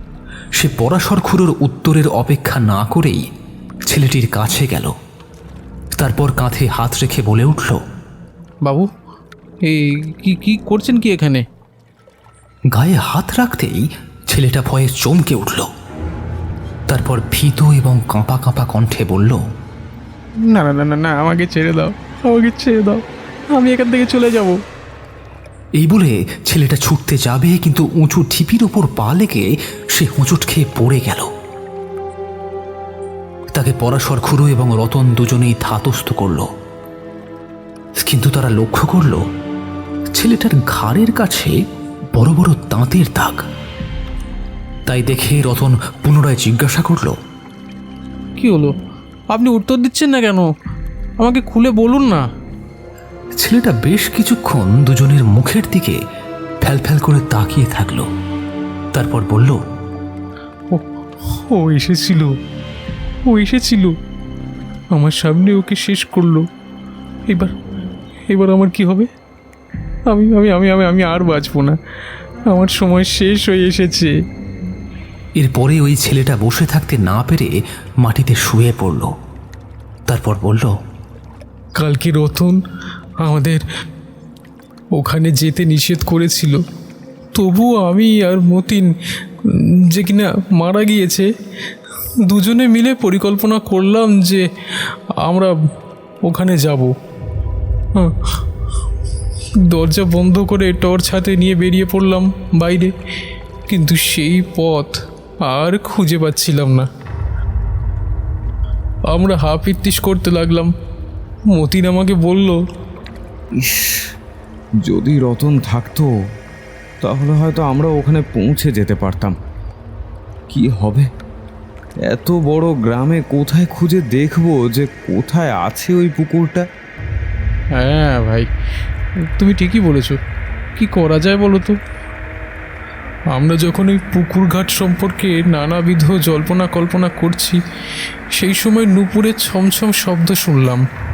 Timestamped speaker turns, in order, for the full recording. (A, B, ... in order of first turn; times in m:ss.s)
0:00.6-0:03.2 A
0:03.9-0:05.0 A
0:06.0-0:07.8 A
0:09.7-0:11.4 B
0:12.7-0:15.7 A
0:16.9-0:19.4 A
0:20.5-0:23.0 B
0:23.6-0:24.6 B
0:25.8-0:31.3 A
0:33.5-0:36.5 A
0:38.0-0:39.2 A
0:40.2-0:41.5 A
0:42.1-0:43.4 A
0:44.9-0:47.2 A
0:48.4-0:48.7 B
0:49.3-0:50.5 B
0:51.2-0:52.2 B
0:53.4-0:56.0 A
0:56.6-0:58.1 A
0:58.9-0:59.6 A
1:01.4-1:02.3 B
1:03.3-1:04.0 B
1:04.9-1:06.4 B
1:08.3-1:09.1 B
1:10.1-1:11.8 B
1:12.5-1:14.1 B
1:15.4-1:17.5 A
1:18.0-1:19.1 A
1:20.1-1:20.7 A
1:21.8-1:22.6 B
1:23.2-1:23.6 B
1:25.0-1:26.6 B
1:27.4-1:28.9 B
1:29.5-1:31.3 B
1:32.3-1:34.4 B
1:35.2-1:35.5 B
1:36.2-1:36.9 B
1:39.7-1:42.9 B
1:43.7-1:46.9 B
1:49.1-1:50.7 B
1:51.5-1:52.6 B
1:53.6-1:54.0 C
1:54.8-1:56.1 C
1:57.0-1:59.4 C
2:00.5-2:01.1 C
2:02.1-2:06.6 C
2:07.8-2:08.5 B
2:09.4-2:10.2 B
2:10.8-2:11.8 B
2:13.3-2:17.6 B
2:18.3-2:20.8 B